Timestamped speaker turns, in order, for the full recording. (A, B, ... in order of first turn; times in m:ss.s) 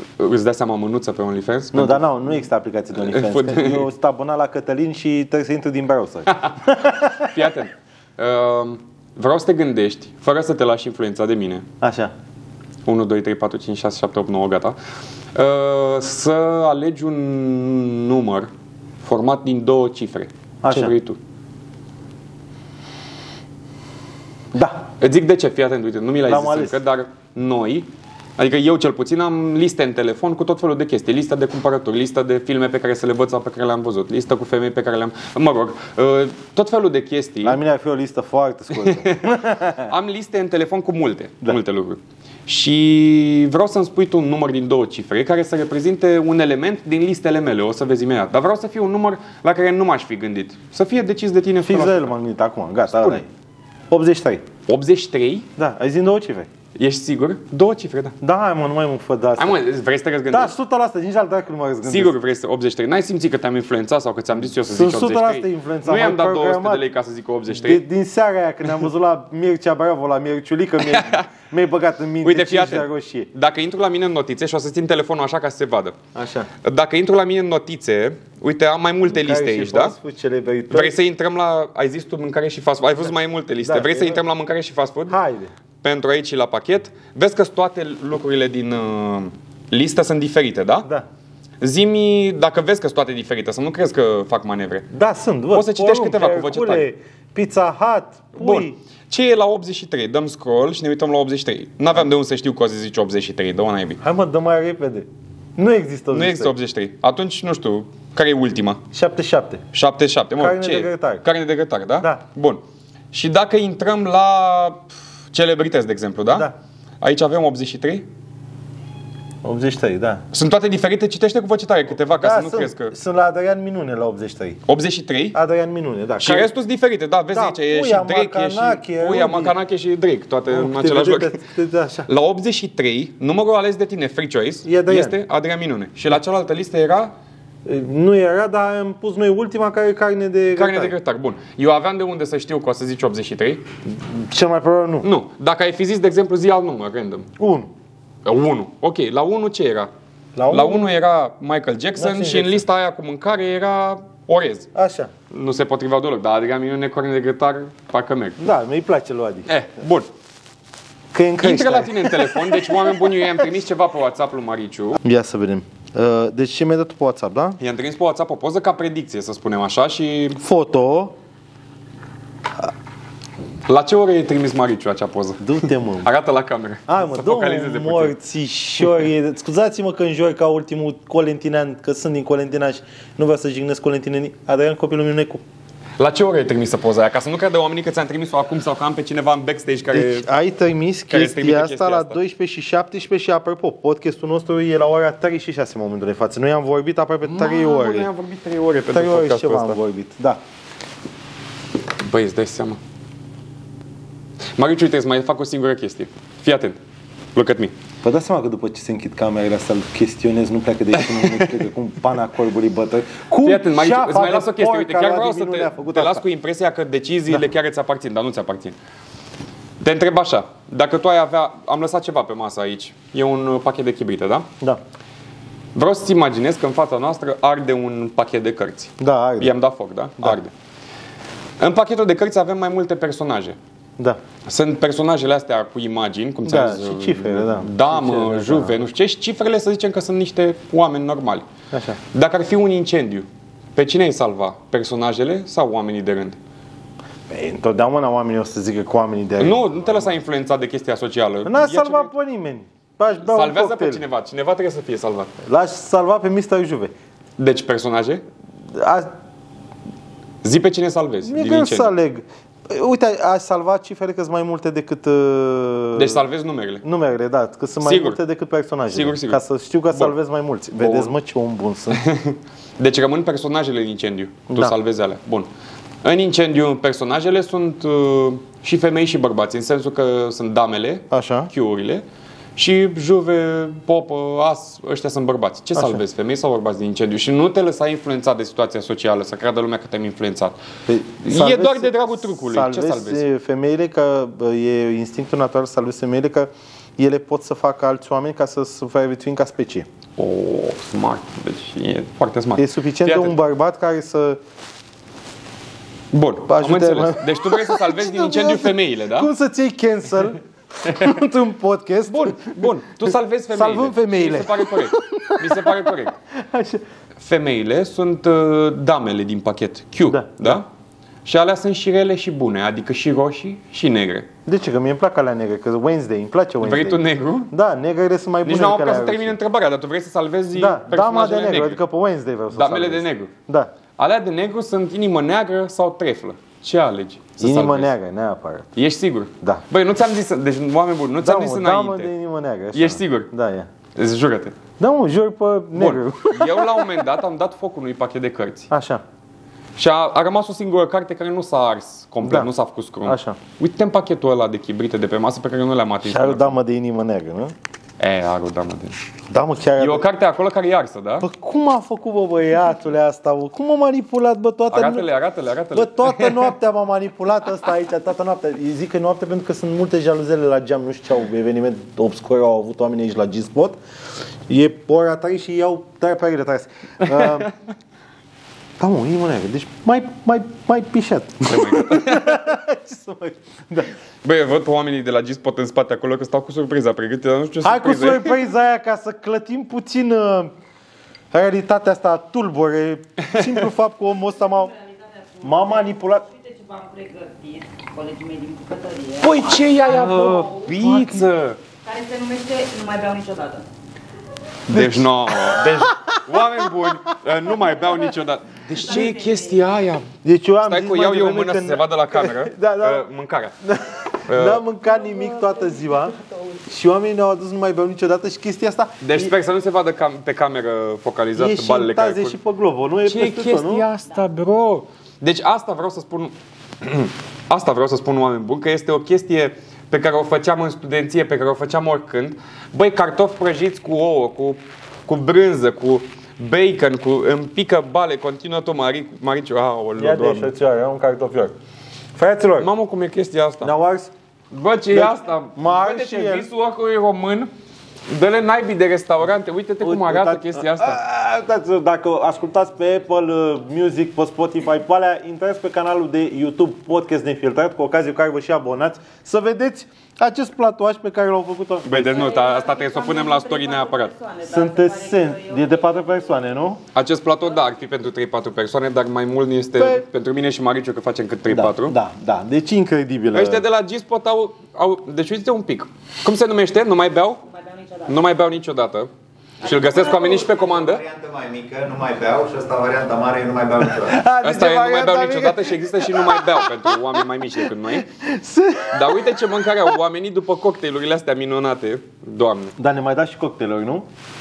0:00.2-0:02.0 A
0:01.7-0:07.3 B
0:03.0-0:03.9 A
0:06.3-0:06.6 A
0:07.2-0:11.7 A
0:11.8-0:12.1 B
0:12.9-0:14.8 A
0:15.3-0:18.5 A
0:19.0-0:21.2 A
0:20.6-0:20.9 B
0:24.5-0:24.8 B
0:25.0-0:37.6 A
0:26.3-0:26.8 B
0:37.4-0:39.9 B
0:38.8-0:52.1 A
0:51.6-0:53.3 B
0:53.0-0:53.2 A
0:53.9-0:54.4 B
0:54.7-0:55.5 A
0:55.6-0:56.5 B
0:56.8-0:58.2 A
0:58.2-0:59.6 B
0:59.4-1:00.5 A
1:00.3-1:02.2 B
1:01.9-1:07.8 A
1:04.7-1:06.9 B
1:07.5-1:13.3 B
1:10.8-1:11.3 A
1:12.2-1:16.0 A
1:16.2-1:16.5 B
1:16.6-1:20.0 A
1:19.1-1:21.0 B
1:20.7-1:25.2 A
1:23.6-1:24.2 B
1:25.1-1:25.5 B
1:25.8-1:30.9 A
1:31.6-1:34.9 A
1:34.9-1:38.8 B
1:35.5-1:36.9 A
1:38.4-1:44.0 A
1:44.0-1:46.5 B
1:46.1-1:48.8 A
1:48.9-1:49.6 B
1:49.7-1:52.6 A
1:50.4-1:51.2 B
1:53.1-1:56.5 A
1:57.0-1:58.1 A
1:59.4-2:00.2 B
2:00.3-2:02.9 A
2:02.1-2:04.6 B
2:04.7-2:05.4 A
2:05.3-2:06.5 B
2:06.2-2:11.4 A
2:07.3-2:09.6 B
2:10.5-2:12.1 B
2:12.1-2:17.1 A
2:14.6-2:15.2 B
2:17.6-2:20.9 B
2:20.5-2:23.7 A
2:23.9-2:25.1 B
2:25.0-2:27.3 A
2:27.4-2:27.7 B
2:28.2-2:29.9 A
2:30.4-2:30.9 B
2:30.5-2:34.7 A
2:32.0-2:32.6 B
2:34.7-2:35.1 B
2:35.3-2:38.5 A
2:38.4-2:39.5 B
2:39.5-2:40.1 A
2:41.1-2:43.1 B
2:41.4-2:45.0 A
2:45.0-2:47.6 B
2:47.6-2:50.4 A
2:50.4-2:51.2 B
2:53.7-2:58.1 A
2:55.4-2:56.1 B
2:56.9-3:05.4 B
3:06.0-3:10.3 A
3:09.9-3:18.1 B
3:11.1-3:12.2 A
3:17.2-3:19.8 A
3:18.9-3:20.4 B
3:22.0-3:22.8 A
3:24.6-3:26.8 A
3:27.3-3:27.7 A
3:28.0-3:36.2 B
3:31.2-3:31.5 A
3:33.4-3:38.8 A
3:39.8-3:44.5 A
3:45.8-3:50.5 A
3:49.0-3:49.6 B
3:51.6-3:53.6 A
3:54.5-4:01.5 A
3:56.5-3:58.8 B
4:01.7-4:02.0 B
4:02.1-4:06.4 A
4:07.3-4:10.0 B
4:09.4-4:12.1 A
4:11.4-4:14.0 B
4:13.2-4:15.3 A
4:15.5-4:16.9 B
4:17.4-4:18.2 A
4:18.7-4:19.1 B
4:20.4-4:21.9 A
4:21.2-4:26.2 B
4:26.0-4:26.8 A
4:26.8-4:32.0 B
4:27.8-4:28.2 A
4:28.9-4:30.1 A
4:30.8-4:31.1 A
4:31.9-4:35.5 A
4:36.0-4:42.0 A
4:41.1-4:41.5 B
4:42.6-4:50.6 A
4:45.7-4:46.0 B
4:50.9-4:59.9 B
4:51.2-4:53.3 A
5:00.2-5:03.4 A
5:02.6-5:04.4 B
5:06.1-5:09.3 A
5:06.5-5:16.8 B
5:12.1-5:16.1 A
5:17.2-5:20.7 A
5:20.1-5:20.6 B
5:21.2-5:24.3 A
5:24.5-5:29.4 B
5:26.6-5:27.5 A
5:28.4-5:31.8 A
5:30.6-5:33.7 B
5:32.5-5:33.3 A
5:34.0-5:37.9 A
5:37.4-5:38.7 B
5:38.8-5:42.1 A
5:41.2-5:43.7 B
5:42.7-5:43.3 A
5:44.0-5:44.6 A
5:44.8-5:47.2 B
5:45.8-5:48.7 A
5:48.7-5:49.0 B
5:49.8-5:56.6 A
5:52.2-5:52.5 B
5:53.0-5:53.4 B
5:56.0-5:57.5 B
5:58.0-5:59.0 A
5:59.3-6:00.1 B
5:59.8-6:01.3 A
6:01.2-6:05.1 B
6:04.7-6:06.5 A
6:05.7-6:13.8 B
6:14.5-6:17.5 B
6:18.8-6:23.9 B
6:21.4-6:22.5 A
6:24.2-6:28.4 A
6:27.6-6:30.5 B
6:31.3-6:34.7 B
6:33.2-6:33.6 A
6:34.4-6:40.8 C
6:35.4-6:36.3 B
6:39.2-6:41.6 A
6:40.0-6:41.3 B
6:41.8-6:43.7 C
6:44.7-6:50.1 A
6:44.7-6:45.9 B
6:46.6-6:46.9 B
6:48.8-6:49.7 C
6:50.2-6:53.0 B
6:50.7-6:53.5 A
6:53.6-6:56.2 B
6:54.3-6:54.6 A
6:54.8-6:56.6 C
6:56.7-6:59.3 B
6:59.0-7:02.4 A
7:01.4-7:03.9 B
7:03.0-7:20.5 A
7:20.0-7:21.6 B
7:22.2-7:22.7 B
7:22.6-7:23.7 A
7:23.6-7:24.1 B
7:24.5-7:27.5 A
7:24.9-7:26.5 B
7:28.1-7:31.0 A
7:29.8-7:42.3 B
7:41.8-7:44.1 A
7:42.0-7:46.4 C
7:44.4-7:46.8 B
7:46.9-7:52.0 A
7:47.6-7:47.9 C
7:49.8-7:50.0 B
7:51.5-7:53.7 B
7:53.3-7:57.4 A
7:57.5-7:58.2 C
7:58.1-7:59.1 A
7:59.6-8:01.0 A
7:59.6-8:00.6 C
8:00.1-8:04.2 D
8:03.8-8:09.6 B
8:04.4-8:08.1 A
8:08.9-8:12.8 A
8:12.8-8:14.1 B